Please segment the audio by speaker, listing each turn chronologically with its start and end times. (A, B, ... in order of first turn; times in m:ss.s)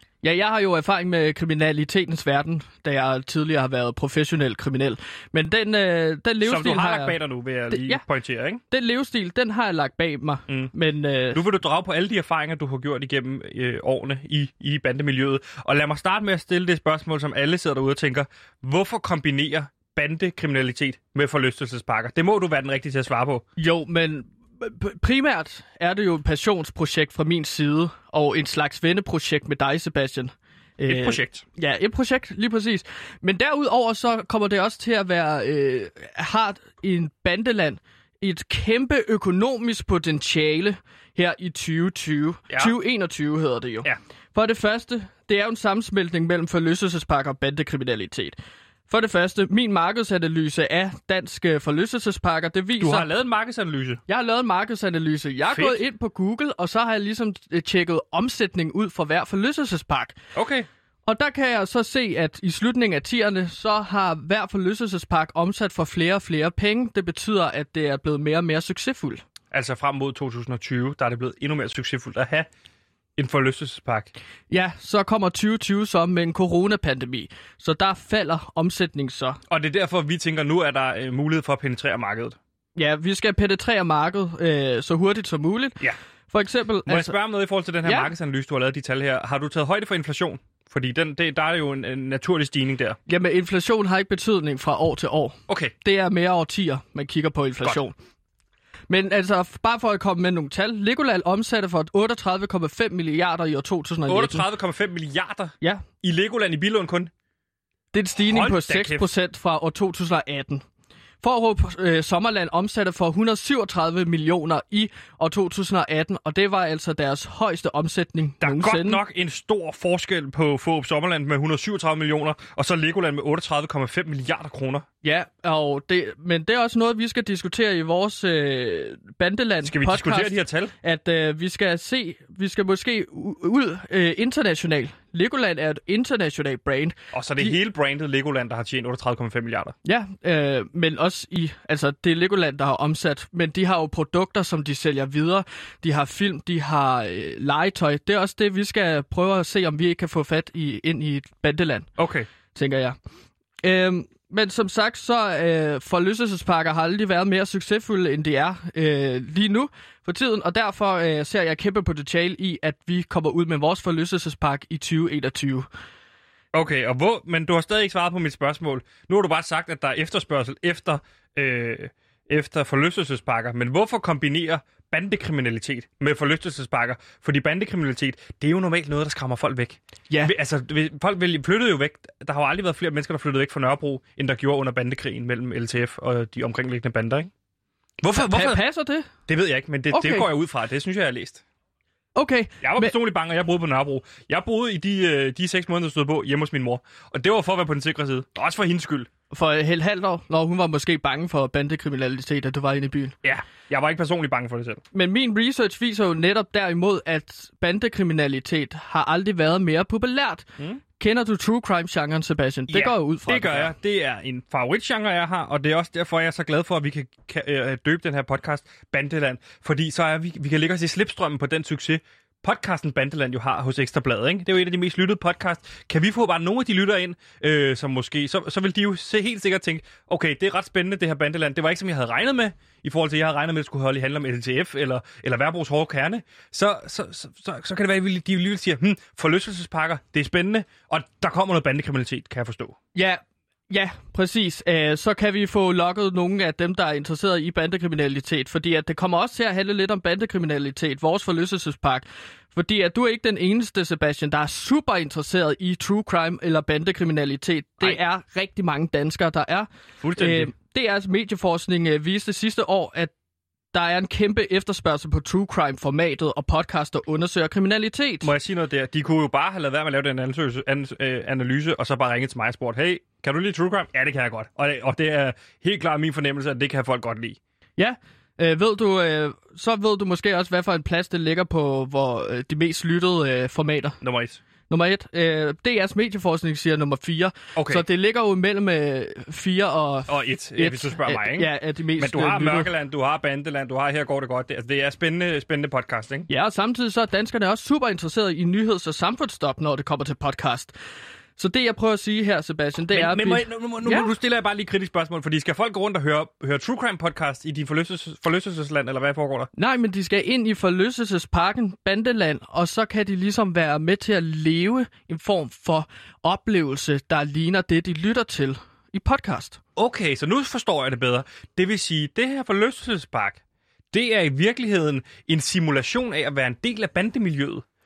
0:00.2-0:07.2 A
0:06.4-0:08.6 B
0:07.7-0:08.0 A
0:08.7-0:11.4 A
0:11.3-0:23.4 B
0:23.6-0:48.4 A
0:30.9-0:31.4 B
0:48.9-0:53.1 A
0:52.8-0:54.0 B
0:54.1-1:00.2 A
0:55.5-0:55.8 B
1:00.4-1:00.7 B
1:01.1-1:09.2 A
1:09.5-1:12.5 B
1:13.2-1:14.1 B
1:14.5-1:19.4 A
1:19.5-1:22.4 B
1:22.8-1:27.2 A
1:26.9-1:33.0 B
1:27.8-1:28.1 A
1:33.1-1:38.0 A
1:35.5-1:35.7 B
1:38.9-1:44.4 A
1:44.1-1:47.1 B
1:45.6-1:45.9 A
1:47.9-1:50.6 A
1:48.3-1:49.1 B
1:51.2-1:59.0 A
1:58.4-2:04.9 B
2:05.0-2:17.6 A
2:09.6-2:10.7 B
2:17.1-2:19.8 B
2:19.8-2:31.9 A
2:32.0-2:32.3 B
2:32.5-2:33.0 A
2:33.6-2:45.7 A
2:46.5-3:07.3 B
3:08.0-3:08.6 B
3:08.2-3:09.1 A
3:09.3-3:11.4 B
3:09.9-3:10.3 A
3:12.2-3:13.0 A
3:12.6-3:19.1 B
3:19.3-3:23.2 A
3:23.2-3:24.8 B
3:24.9-3:33.7 A
3:32.7-4:02.8 B
4:02.9-4:23.1 A
4:20.0-4:20.5 B
4:23.7-4:28.3 A
4:28.2-4:37.4 B
4:37.8-4:44.0 A
4:44.0-4:44.4 B
4:44.7-4:52.7 A
4:47.6-4:47.8 B
4:50.1-4:56.3 B
4:56.3-5:00.7 A
5:01.4-5:04.1 A
5:02.9-5:09.5 B
5:09.6-5:19.6 A
5:19.8-5:27.6 B